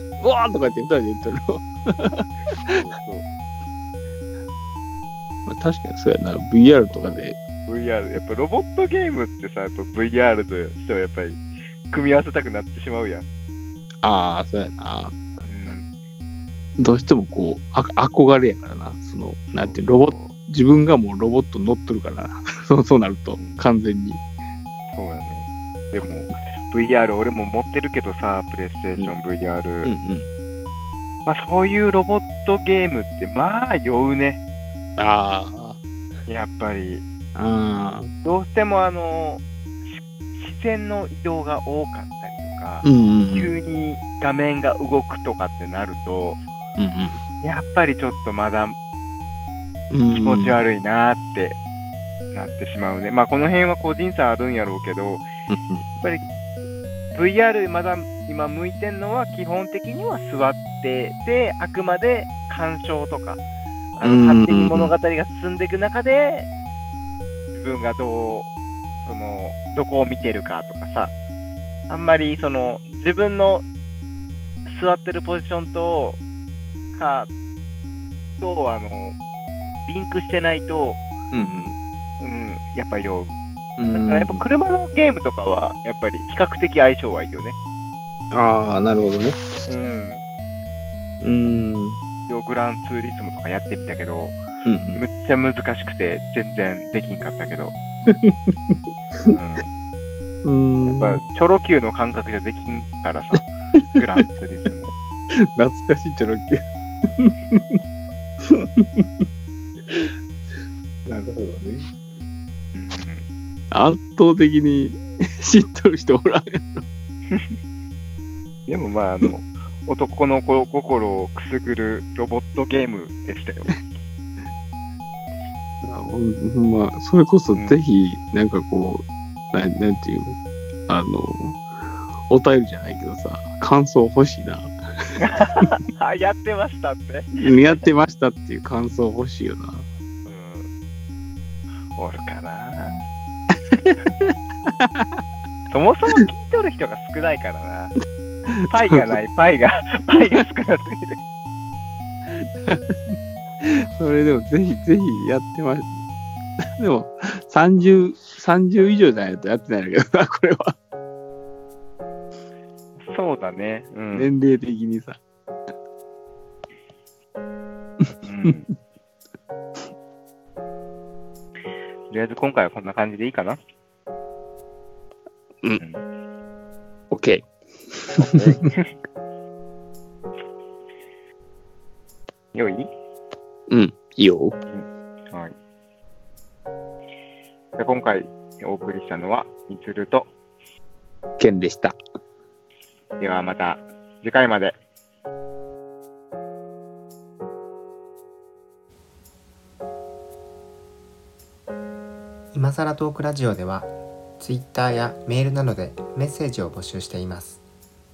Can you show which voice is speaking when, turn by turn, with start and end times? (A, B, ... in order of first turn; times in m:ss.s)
0:00.2-0:02.8 A
0:02.6-0:03.2 B
0:05.4-0:07.4 A
0:06.9-0:13.2 B
0:14.0-0:15.1 A
0:15.4-0:15.8 B
0:16.8-0:24.2 A
0:19.5-0:20.3 B
0:23.4-0:23.6 B
0:24.9-0:29.9 B
0:29.8-0:30.3 A
0:31.2-0:34.4 B
0:35.0-0:35.8 A
0:36.3-0:37.0 B
0:37.4-0:38.1 A
0:38.2-0:46.4 B
0:42.8-0:43.5 A
0:46.8-0:47.2 A
0:47.4-0:48.7 B
0:49.9-0:50.6 A
0:50.1-0:51.6 B
0:52.3-0:55.3 B
0:55.5-0:55.8 A
0:57.1-1:03.4 B
1:03.9-1:06.5 B
1:04.0-1:04.9 A
1:07.5-1:08.5 B
1:09.0-1:11.1 B
1:11.9-1:13.6 B
1:14.6-1:16.2 B
1:16.9-1:17.3 B
1:18.4-1:19.2 B
1:19.8-1:21.0 B
1:21.3-1:21.8 A
1:22.2-1:23.3 B
1:23.8-1:24.4 A
1:23.9-1:27.6 B
1:28.3-1:29.4 A
1:29.6-1:30.2 B
1:31.2-1:32.0 A
1:32.3-1:34.4 B
1:34.6-1:35.0 A
1:34.9-1:37.8 B
1:38.1-1:39.3 A
1:39.3-1:39.6 B
1:40.4-1:41.2 A
1:40.8-1:44.9 B
1:45.3-1:47.8 A
1:48.4-1:49.2 A
1:51.0-1:51.9 A
1:52.7-1:53.2 B
1:53.7-1:56.8 A
1:57.3-1:57.6 B
1:58.7-2:03.9 B
2:05.8-2:10.4 A
2:10.9-2:11.6 A
2:12.3-2:14.7 A
2:15.2-2:17.9 B
2:17.4-2:19.8 A
2:20.2-2:20.7 B
2:22.0-2:23.0 B
2:23.8-2:25.2 A
2:25.7-2:27.9 B
2:28.5-2:29.2 A
2:28.6-2:31.2 B
2:32.3-2:35.9 A
2:36.6-2:40.7 A
2:37.8-2:38.0 B
2:43.0-2:44.3 B
2:44.1-2:45.2 A
2:48.2-2:48.7 B
2:52.1-2:53.6 B
2:57.1-2:58.6 A
2:58.2-2:58.9 B
3:02.5-3:02.9 B
3:03.7-3:04.6 A
3:04.7-3:05.5 B
3:07.8-3:10.3 B
3:11.4-3:11.9 A
3:13.2-3:14.7 B
3:22.5-3:27.6 C